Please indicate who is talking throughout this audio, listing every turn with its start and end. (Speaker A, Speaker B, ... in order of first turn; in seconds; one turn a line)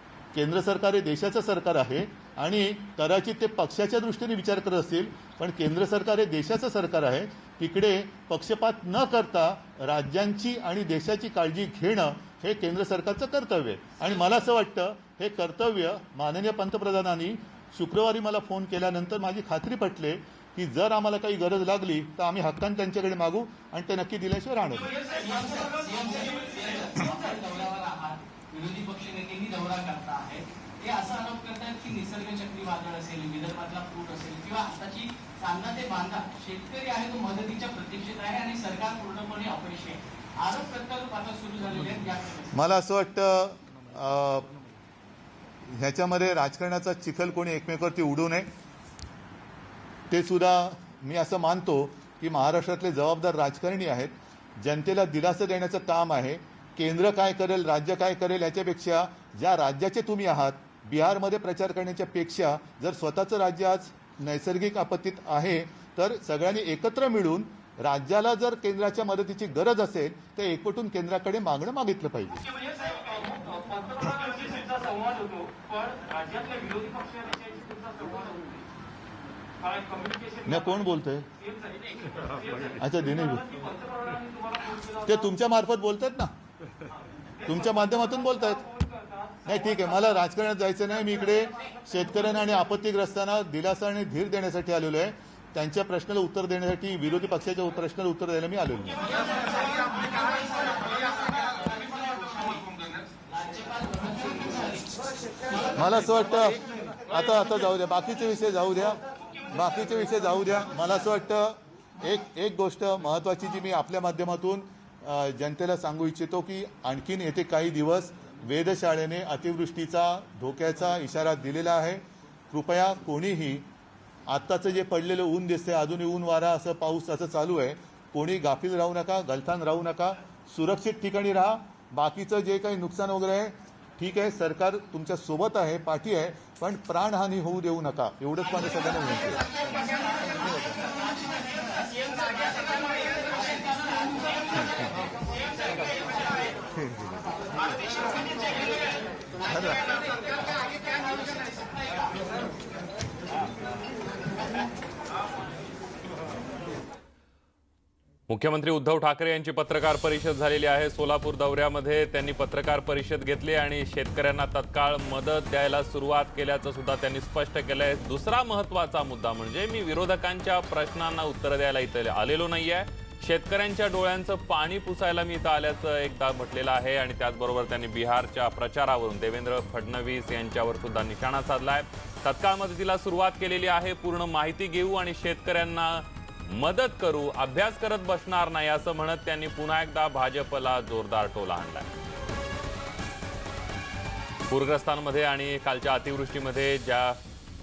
Speaker A: 0.3-24.9
Speaker B: 25.0-42.5
Speaker C: 25.0-26.9
Speaker A: 42.5-44.5
Speaker A: 45.7-48.5
Speaker A: 50.1-72.4
Speaker C: 72.4-78.7
Speaker C: 79.6-85.3
Speaker A: 80.5-81.3
Speaker A: 82.8-83.5
Speaker A: 85.0-86.3
Speaker C: 86.9-90.2
Speaker A: 87.5-88.6
Speaker A: 89.5-99.1
Speaker B: 99.0-102.7
Speaker B: 103.3-106.3
Speaker A: 105.7-123.7
Speaker A: 124.3-139.5
Speaker B: 139.7-144.9
Speaker B: 145.9-146.5
Speaker B: 148.0-148.8
Speaker A: 149.5-149.8
Speaker B: 150.6-152.1
Speaker D: 158.3-191.9
Speaker D: 194.5-197.2